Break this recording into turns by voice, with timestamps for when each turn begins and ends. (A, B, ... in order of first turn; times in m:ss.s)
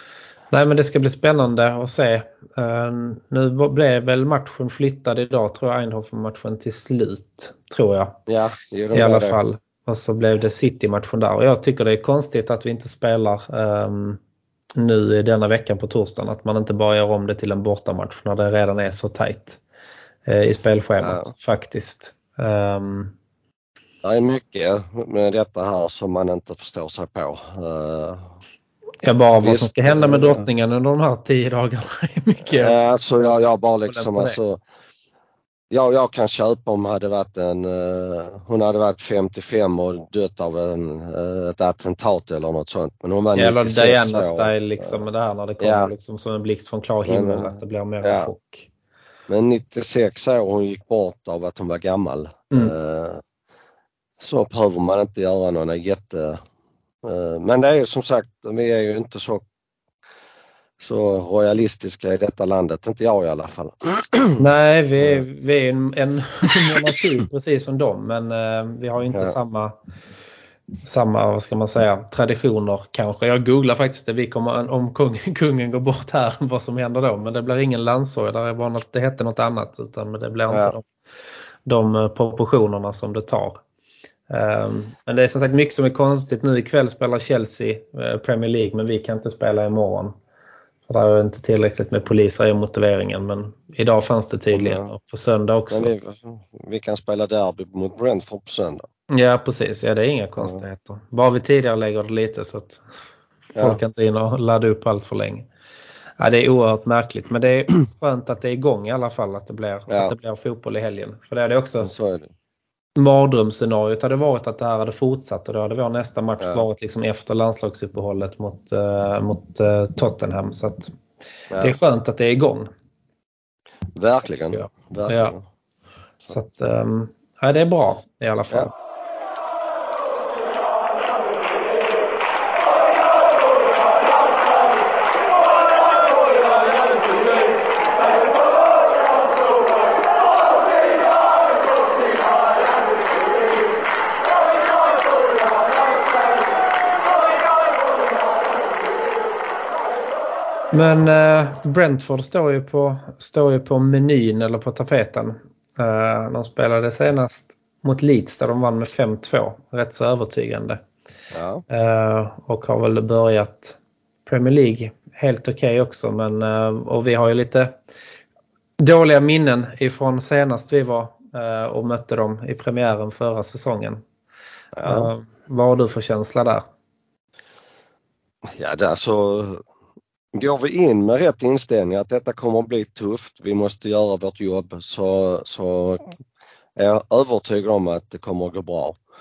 0:00.5-0:08.2 A
0:08.3-0:09.4 B
0:08.9-0:14.2 A
0:14.8-0:19.6 A
0:20.2-0:23.1 A
0:21.0-0:21.3 B
0:24.0-0:28.3 B
0:29.0-0:33.3 A
0:29.4-0:30.4 B
0:32.5-0:34.6 B
0:33.9-0:34.4 A
0:35.7-0:45.0 B
0:43.4-0:48.7 A
0:45.6-0:45.9 B
0:47.0-0:48.3 B
0:49.3-0:53.2 B
0:54.2-0:56.4 B
0:57.0-0:59.4 B
1:00.8-1:04.4 B
1:04.4-1:09.7 A
1:10.8-1:20.9 A
1:20.5-1:20.7 B
1:21.6-1:23.6 A
1:24.3-1:30.1 A
1:30.9-1:35.9 A
1:34.5-1:34.9 B
1:35.7-1:38.9 B
1:39.1-1:42.8 A
1:43.5-1:45.5 A
1:46.2-1:51.9 A
1:49.9-1:50.1 B
1:51.8-1:52.3 B
1:53.0-2:00.9 A
1:56.4-1:56.6 B
2:01.5-2:01.8 B
2:01.6-2:02.7 A
2:03.9-2:05.4 B
2:04.5-2:05.3 A
2:06.3-2:08.7 A
2:30.7-2:40.8 A
2:41.3-2:41.6 B
2:41.7-2:47.7 A
2:48.8-2:54.0 A
2:54.8-2:55.1 B
2:54.8-2:56.6 A
2:58.5-2:59.6 B
3:00.3-3:06.1 B
3:06.8-3:09.0 B